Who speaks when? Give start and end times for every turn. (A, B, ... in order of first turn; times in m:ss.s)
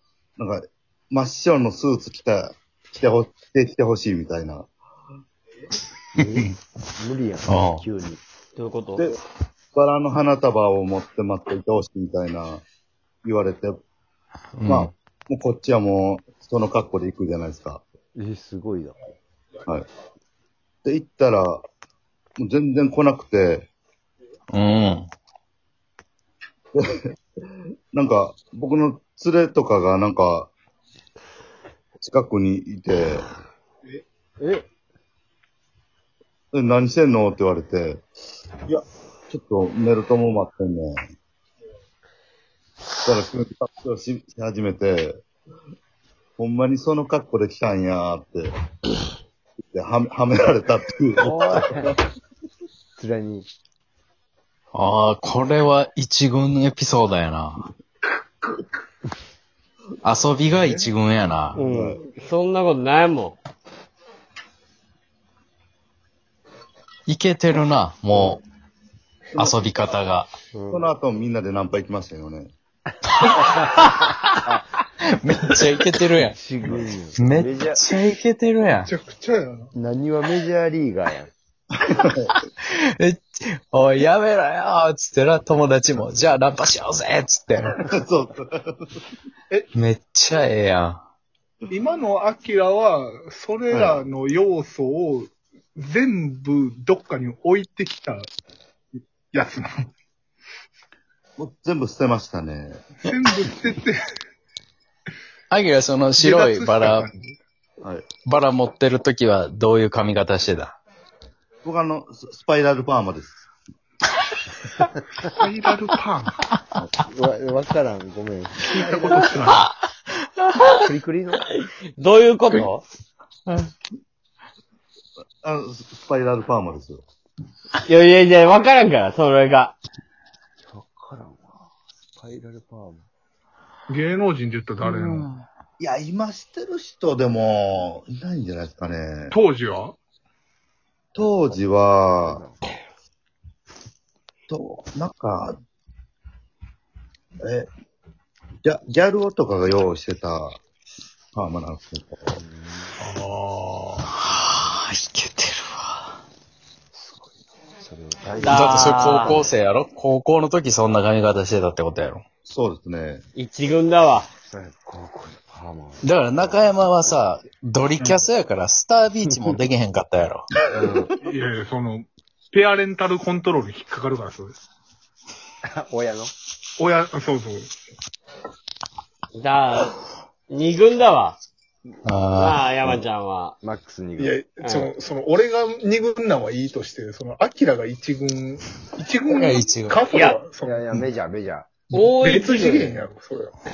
0:00.4-0:04.7 A
0:06.2-0:08.2 B
0:06.2-0:06.5 C
0:07.4-0:07.8 C
0:08.5-0:09.1 D
0:09.7-0:12.6 A
0:13.2-0:13.8 A
0:14.6-0:14.9 C
0:14.6-0:17.8 A
0:18.1-0:19.0 B
0:20.8-0:21.6 A
0:22.4-0:23.7 A
0:24.5-0:25.1 C
0:26.7-0:27.1 A
0:27.9-0:30.5 A
0:32.0-0:33.2 A
0:34.4-0:34.7 B
0:36.5-0:38.0 A
0:38.6-0:41.0 A
0:43.0-0:45.2 A
0:46.4-0:48.5 A
0:49.7-0:52.0 A
0:51.2-0:52.0 B
0:53.0-0:53.5 B
0:54.7-0:57.7 C
1:00.0-1:01.6 C
1:00.6-1:00.9 E
1:01.5-1:03.4 D
1:01.6-1:02.0 A
1:07.1-1:08.4 C
1:09.3-1:09.6 A
1:09.4-1:10.3 C
1:10.6-1:10.9 B
1:10.7-1:12.5 A
1:13.2-1:14.1 C
1:13.4-1:13.9 B
1:15.1-1:18.9 C
1:16.3-1:17.8 B
1:18.7-1:19.7 E
1:19.7-1:21.3 B
1:21.8-1:22.3 A
1:22.3-1:27.8 C
1:27.6-1:28.9 A
1:29.7-1:31.0 C
1:31.7-1:38.3 E
1:33.7-1:34.0 A
1:39.3-1:39.9 E
1:41.4-1:42.8 A
1:43.0-1:44.1 E
1:45.5-1:47.1 C
1:46.2-1:47.4 E
1:48.2-1:50.8 C
1:51.6-1:53.4 A
1:55.3-1:56.4 E
1:57.1-1:59.2 B
1:58.6-1:59.7 E
1:59.3-1:59.7 C
2:00.7-2:01.5 B
2:02.0-2:02.8 D
2:05.4-2:07.0 A
2:07.8-2:09.8 D
2:10.7-2:11.6 B
2:12.2-2:13.0 B
2:13.9-2:15.3 E
2:15.8-2:19.3 A
2:19.3-2:20.0 E
2:21.1-2:22.4 A
2:22.2-2:22.6 B
2:24.5-2:25.6 A
2:27.4-2:27.7 A
2:28.6-2:30.6 A
2:31.3-2:32.4 A
2:32.3-2:32.9 B
2:33.0-2:34.0 E
2:34.2-2:36.2 C
2:36.9-2:39.5 B
2:38.4-2:39.4 D
2:38.4-2:42.2 C
2:42.4-2:43.2 A
2:43.3-2:44.3 D
2:44.4-2:46.7 B
2:46.0-2:50.5 C
2:50.7-2:51.1 B
2:51.2-2:54.6 E
2:55.6-2:56.3 B
2:56.8-2:57.7 E
2:59.3-2:59.9 D
3:00.5-3:01.4 D
3:02.0-3:03.0 C
3:02.4-3:03.6 D
3:03.6-3:04.4 B
3:04.2-3:11.1 E
3:04.6-3:04.9 D
3:09.3-3:10.0 C
3:10.1-3:10.4 D
3:10.6-3:11.7 B
3:11.9-3:13.0 D
3:11.9-3:13.5 E